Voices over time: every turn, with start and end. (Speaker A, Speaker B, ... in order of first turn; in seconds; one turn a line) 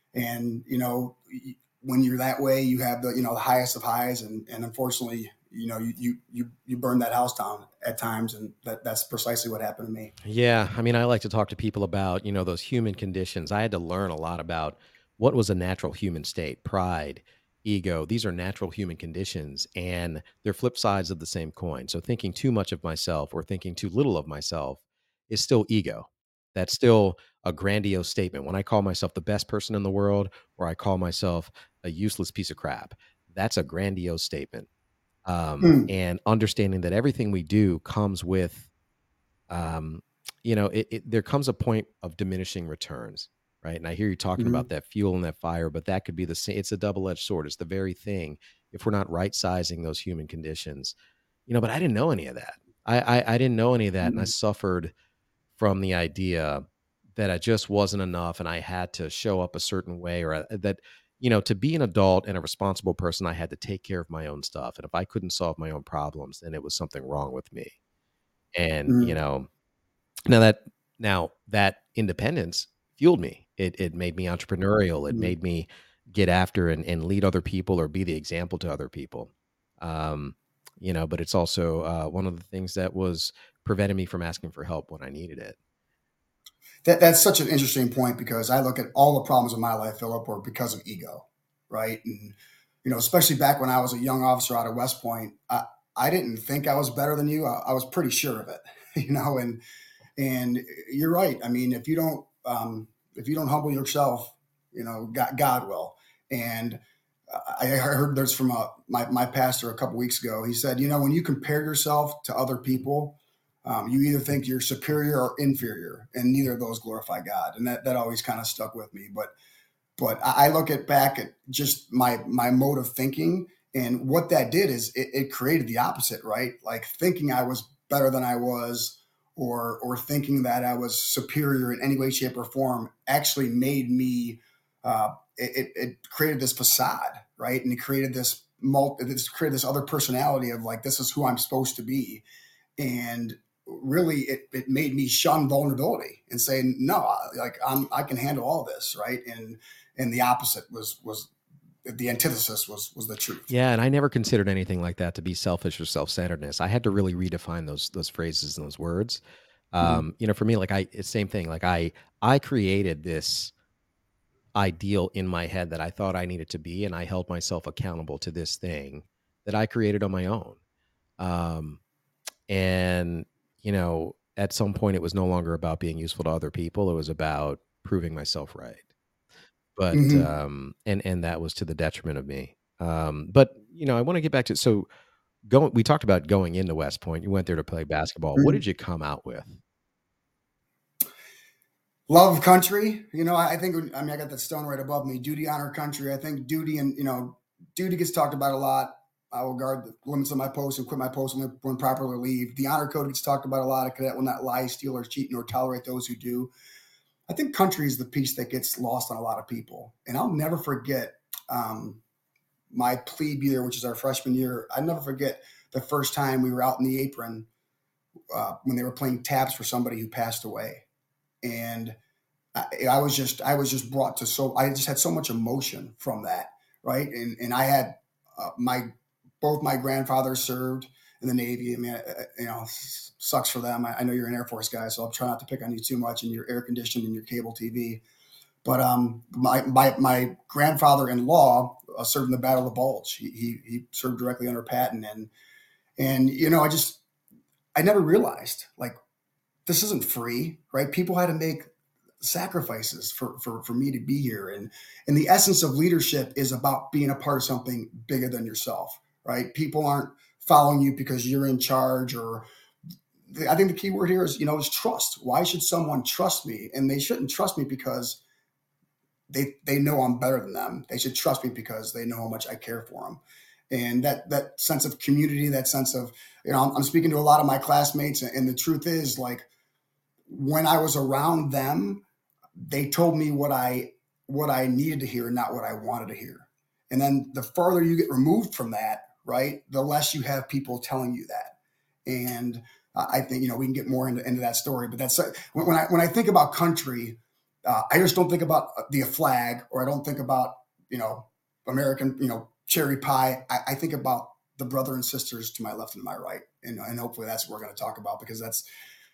Speaker A: 0.1-10.1
Speaker B: 10.2-34.7
Speaker B: 35.3-38.7
Speaker A: 35.6-35.9
Speaker B: 39.5-51.0
Speaker A: 44.4-44.7
Speaker B: 51.5-54.9
Speaker A: 54.0-54.3
Speaker B: 55.6-56.6
Speaker B: 57.1-67.7
Speaker B: 68.5-69.5
Speaker A: 68.9-69.2
Speaker B: 70.3-85.6
Speaker A: 86.8-99.6
Speaker A: 100.2-119.3
Speaker A: 120.0-142.2
Speaker A: 142.8-151.3
Speaker A: 151.8-153.5
Speaker B: 153.5-159.2
Speaker B: 159.7-163.5
Speaker B: 164.6-170.6
Speaker B: 171.2-171.8
Speaker B: 172.5-178.8
Speaker B: 179.8-184.9
Speaker A: 179.9-180.3
Speaker B: 185.5-189.6
Speaker A: 192.1-206.5
Speaker A: 207.3-212.0
Speaker A: 212.7-217.5
Speaker A: 218.3-220.8
Speaker A: 221.4-222.0
Speaker A: 222.6-238.0
Speaker A: 238.6-245.3
Speaker A: 246.0-247.0
Speaker A: 247.8-248.9
Speaker A: 249.7-251.7
Speaker A: 252.2-262.4
Speaker A: 263.3-268.2
Speaker A: 269.3-279.5
Speaker A: 280.3-282.0
Speaker A: 282.7-291.6
Speaker A: 292.1-308.7